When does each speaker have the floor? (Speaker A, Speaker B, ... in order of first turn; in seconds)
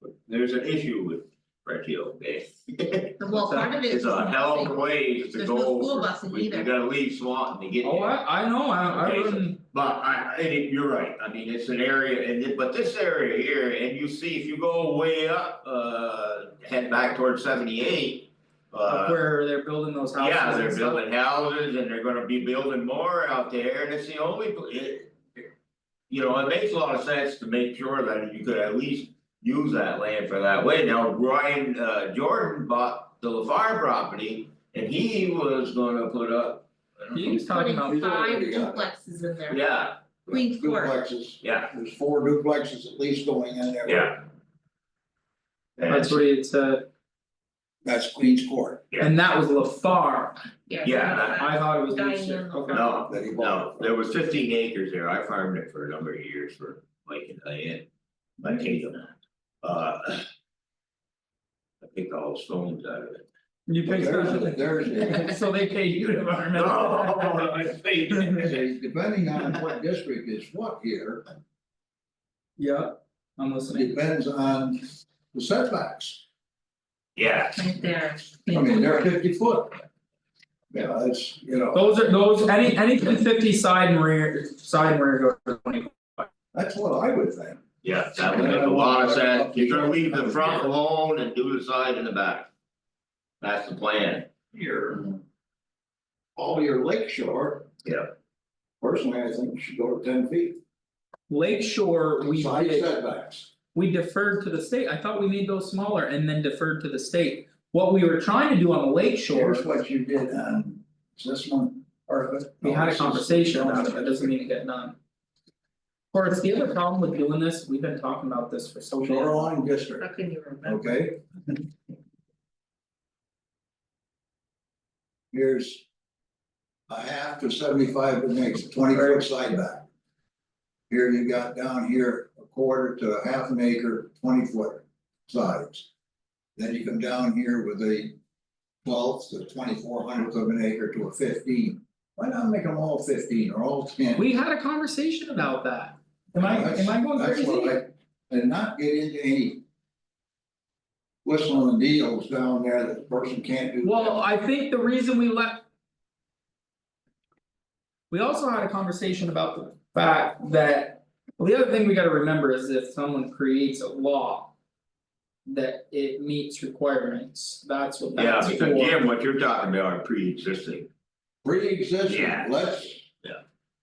Speaker A: 0.2-3.3, 3.8-8.2, 8.9-19.2, 20.2-25.5, 26.1-37.1, 39.5-40.0, 41.4-41.7, 43.9-44.2, 45.8-46.2, 50.8-51.5, 52.7-57.9, 58.4-59.1, 59.6-60.2, 61.8-63.3, 66.5-68.7, 77.2-77.6, 87.8-92.5, 93.4-94.3, 97.8-98.1, 168.2-170.9, 172.1-173.4
Speaker B: 3.2-6.7, 37.3-39.6, 40.3-41.0, 50.7-53.0, 77.5-79.0, 120.0-120.9
Speaker C: 3.3-3.8, 7.8-9.6, 18.9-21.0, 37.1-38.1, 45.9-46.9, 49.0-50.4, 51.4-52.9, 63.7-67.5, 72.6-74.0, 81.7-86.3, 101.3-102.9, 103.7-109.7, 112.1-115.0, 116.1-119.4, 128.9-129.2, 144.2-147.8, 153.8-155.6, 158.1-164.5, 165.4-169.0
Speaker D: 37.2-38.8, 40.3-44.2, 47.8-48.8, 53.1-53.9, 63.8-65.4, 68.4-71.2, 73.7-76.2, 78.5-79.8, 80.7-82.0, 86.5-87.6, 88.2-90.7, 94.5-95.2, 96.4-97.7, 98.8-100.6, 102.2-103.5, 109.3-114.3, 118.9-120.1, 120.6-121.5, 125.3-125.8, 126.9-129.9, 130.9-135.9, 136.6-138.2, 138.8-144.3, 146.4-149.6, 151.2-154.3, 171.4-173.0